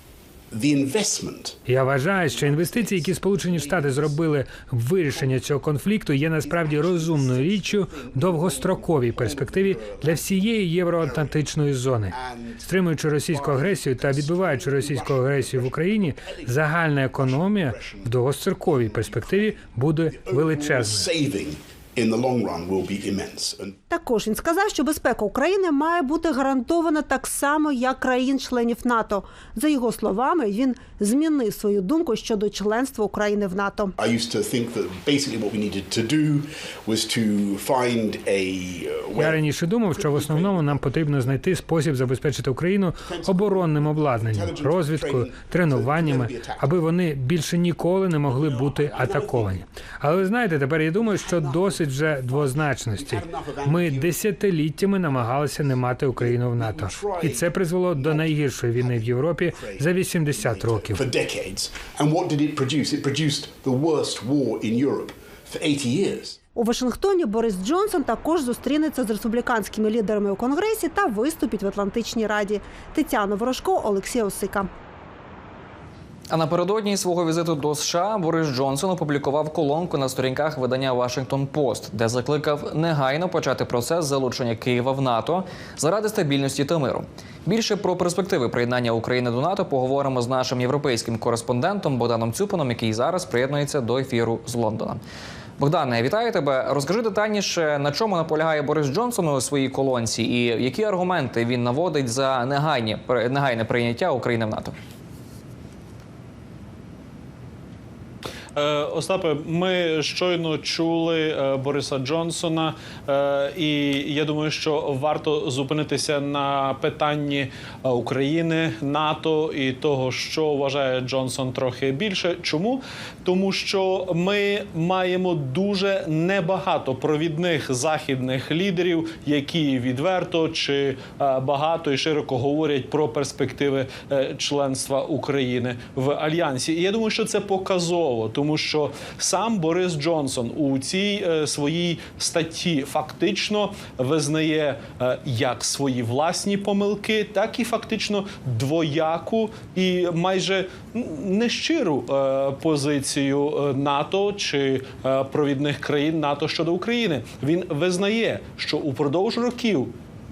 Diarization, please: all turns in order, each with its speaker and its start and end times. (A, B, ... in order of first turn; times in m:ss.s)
0:00.5-0:01.6 A
0:01.7-0:21.1 B
0:02.2-0:04.3 A
0:05.1-0:05.7 A
0:06.3-0:10.4 A
0:11.0-0:11.5 A
0:12.1-0:23.7 A
0:23.9-0:33.9 C
0:34.0-0:41.7 A
0:39.2-1:01.0 B
0:43.0-0:46.7 A
0:48.2-0:49.6 A
0:50.9-0:54.2 A
0:55.0-1:06.4 A
1:06.6-1:14.7 C
1:16.3-1:35.0 D
1:35.6-1:44.7 D
1:48.6-2:39.9 E